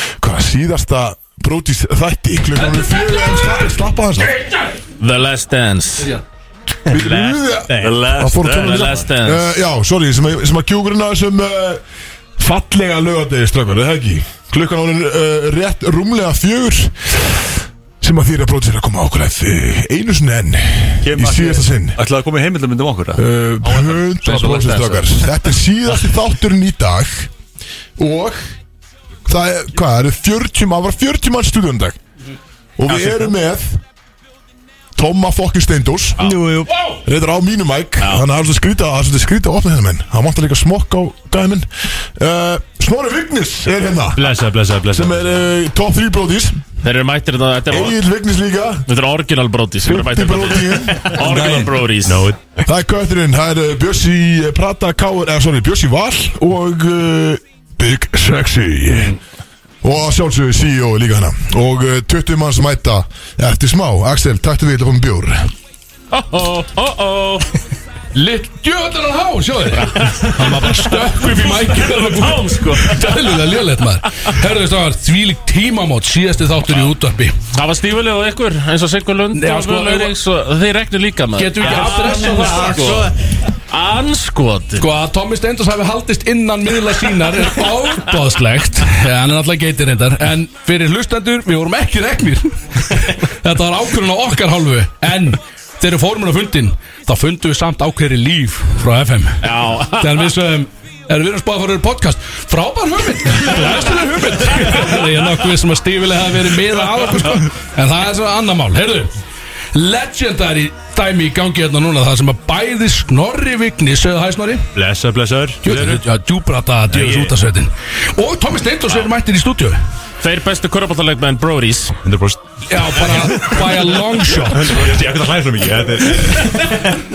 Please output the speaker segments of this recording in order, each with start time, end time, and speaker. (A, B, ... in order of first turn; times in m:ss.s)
0:00.2-0:04.4 A
0:05.0-0:06.1 B
0:06.9-0:11.8 A
0:06.9-0:09.5 B
0:07.7-0:08.2 C
0:12.4-0:17.1 A
0:18.0-0:22.0 A
0:21.0-0:24.8 C
0:23.2-0:27.3 A
0:24.3-0:24.9 B
0:28.0-0:28.4 A
0:29.3-0:32.0 A
0:32.8-0:33.8 A
0:35.0-0:36.2 A
0:36.2-0:36.4 B
0:36.2-0:36.7 C
0:37.0-0:44.3 A
0:44.1-0:45.2 C
0:44.9-0:46.6 A
0:46.8-0:48.0 B
0:47.7-0:48.8 A
0:48.9-0:52.3 B
0:49.8-0:51.2 A
0:51.2-0:52.4 C
0:52.6-0:59.1 A
0:59.8-1:05.5 A
1:06.1-1:07.6 B
1:08.1-1:17.4 D
1:09.8-1:13.4 B
1:17.5-1:23.1 B
1:19.3-1:20.1 D
1:21.4-1:23.1 D
1:23.7-1:24.9 B
1:24.8-1:39.4 D
1:39.4-1:40.3 B
1:40.0-1:49.1 D
1:49.7-1:54.7 D
1:54.7-1:56.0 C
1:55.6-1:59.8 D
1:56.9-1:57.3 C
2:00.2-2:02.0 B
2:02.0-2:03.5 C
2:02.7-2:04.9 D
2:04.5-2:06.7 C